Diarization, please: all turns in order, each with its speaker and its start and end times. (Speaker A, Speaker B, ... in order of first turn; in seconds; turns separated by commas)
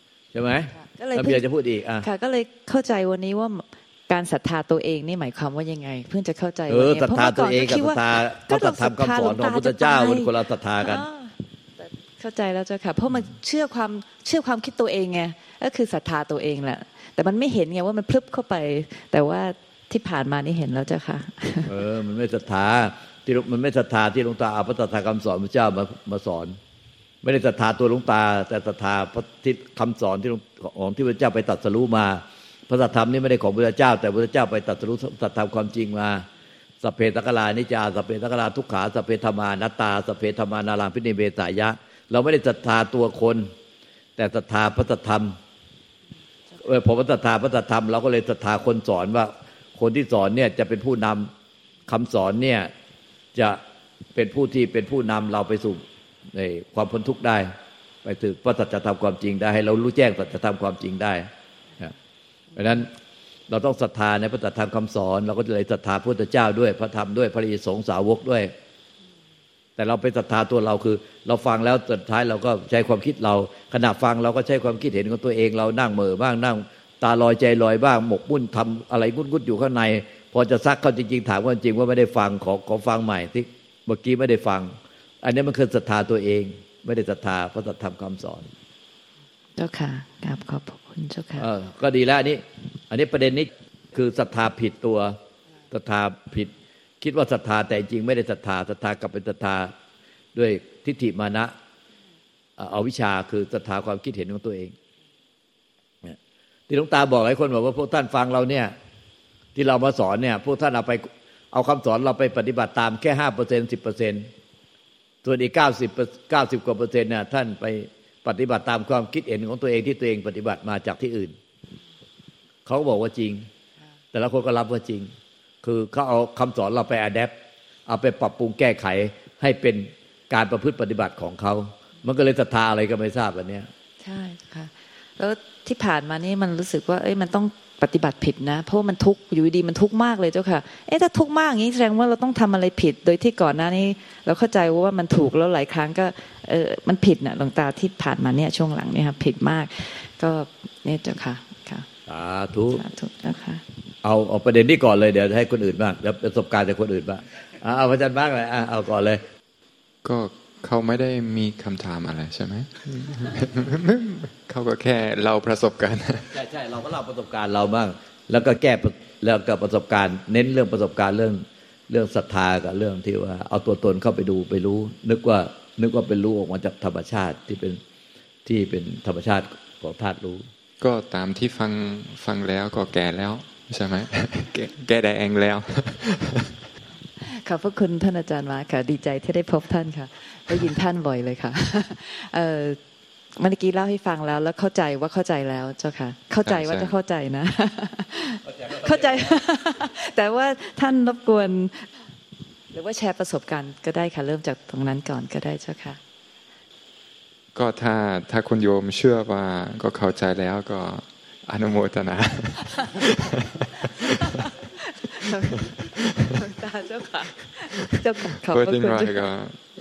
Speaker A: 0.3-2.0, Speaker B: 0.7-1.4, Speaker B: 2.0-21.8, Speaker A: 6.7-11.0, Speaker A: 21.7-26.6, Speaker A: 27.2-36.3, Speaker A: 36.8-43.5, Speaker A: 44.2-45.4, Speaker A: 46.6-51.3, Speaker A: 51.9-52.7, Speaker A: 53.3-53.6, Speaker A: 54.1-57.5, Speaker A: 58.0-61.3, Speaker A: 62.5-62.9, Speaker A: 63.5-68.5, Speaker A: 69.8-88.5, Speaker B: 89.6-91.4, Speaker A: 91.4-95.2, Speaker A: 95.7-99.7, Speaker A: 100.3-101.5, Speaker A: 102.6-104.7, Speaker A: 106.7-108.7, Speaker A: 109.5-114.3, Speaker A: 115.2-121.3, Speaker A: 122.7-123.5, Speaker A: 124.1-125.1, Speaker A: 125.6-127.3, Speaker A: 127.9-133.7, Speaker B: 134.0-151.9, Speaker A: 152.1-152.8, Speaker B: 152.7-153.6, Speaker A: 154.0-159.2, Speaker C: 160.0-166.3, Speaker A: 166.3-177.8, Speaker A: 178.4-180.5, Speaker C: 180.8-186.5, Speaker B: 187.2-192.8, Speaker B: 193.4-201.9, Speaker C: 196.4-196.9, Speaker A: 198.5-199.4, Speaker B: 202.7-206.0, Speaker C: 207.5-214.4, Speaker B: 214.3-215.7, Speaker C: 215.5-216.3, Speaker B: 216.3-219.3, Speaker C: 218.4-219.6